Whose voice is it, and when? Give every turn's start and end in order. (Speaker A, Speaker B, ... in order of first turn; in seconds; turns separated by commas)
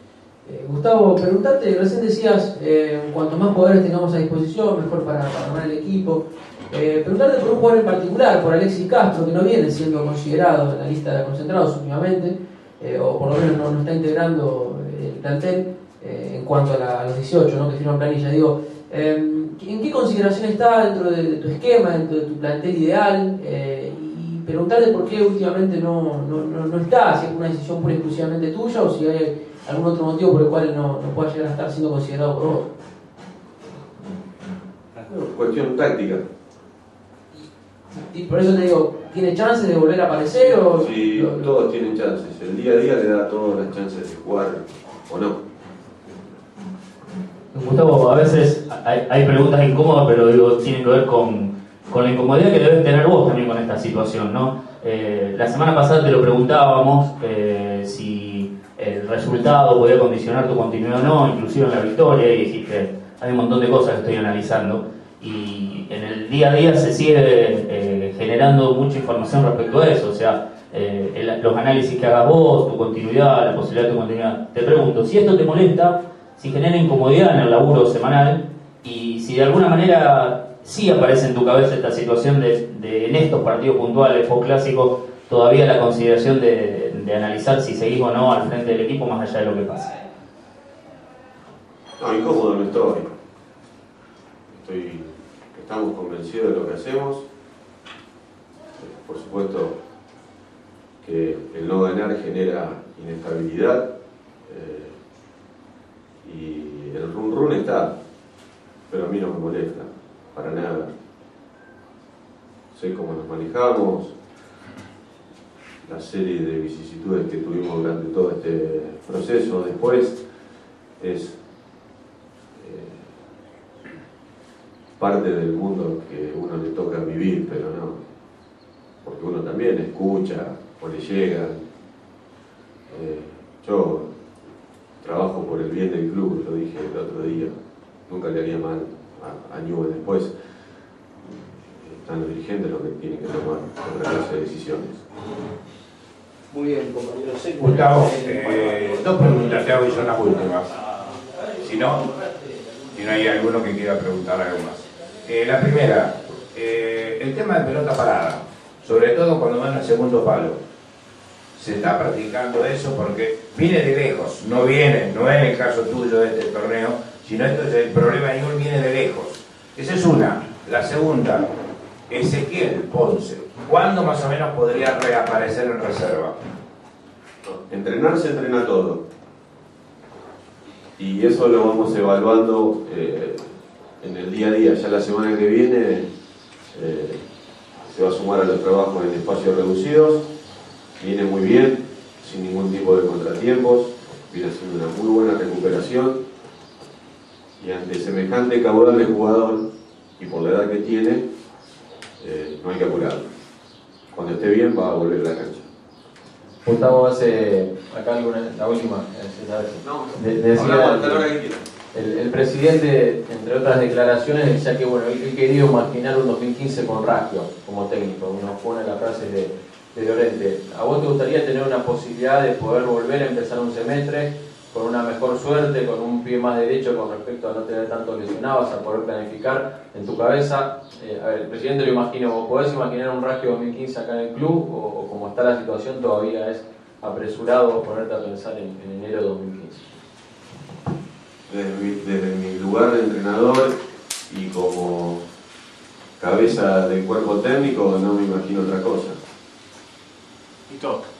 Speaker A: 0.4-32.7, Speaker B: 35.0-36.2, Speaker A: 37.3-41.6, Speaker B: 40.8-45.4, Speaker C: 47.5-89.9, Speaker B: 92.0-93.0, Speaker B: 94.5-97.2, Speaker B: 98.8-99.8, Speaker B: 101.0-103.9, Speaker B: 104.5-105.0, Speaker B: 106.2-108.0, Speaker B: 108.9-110.9, Speaker B: 112.7-114.1, Speaker B: 115.8-120.2, Speaker B: 121.0-121.4, Speaker B: 122.6-123.1, Speaker B: 125.0-128.0, Speaker B: 129.0-131.6, Speaker B: 132.9-134.1, Speaker B: 135.0-137.5, Speaker B: 138.1-140.3, Speaker B: 141.2-145.0, Speaker D: 147.6-150.7, Speaker D: 151.6-152.1, Speaker D: 152.9-160.6, Speaker D: 161.6-171.5, Speaker D: 172.1-176.3, Speaker B: 177.4-179.0, Speaker B: 181.0-186.1, Speaker B: 186.7-187.2, Speaker B: 187.8-190.3, Speaker B: 191.0-196.2, Speaker B: 197.6-201.2, Speaker B: 202.2-203.3, Speaker B: 204.1-205.7, Speaker E: 206.6-211.3, Speaker B: 209.8-211.6, Speaker E: 211.9-239.8, Speaker B: 241.5-243.8, Speaker B: 244.3-245.2, Speaker B: 246.2-249.2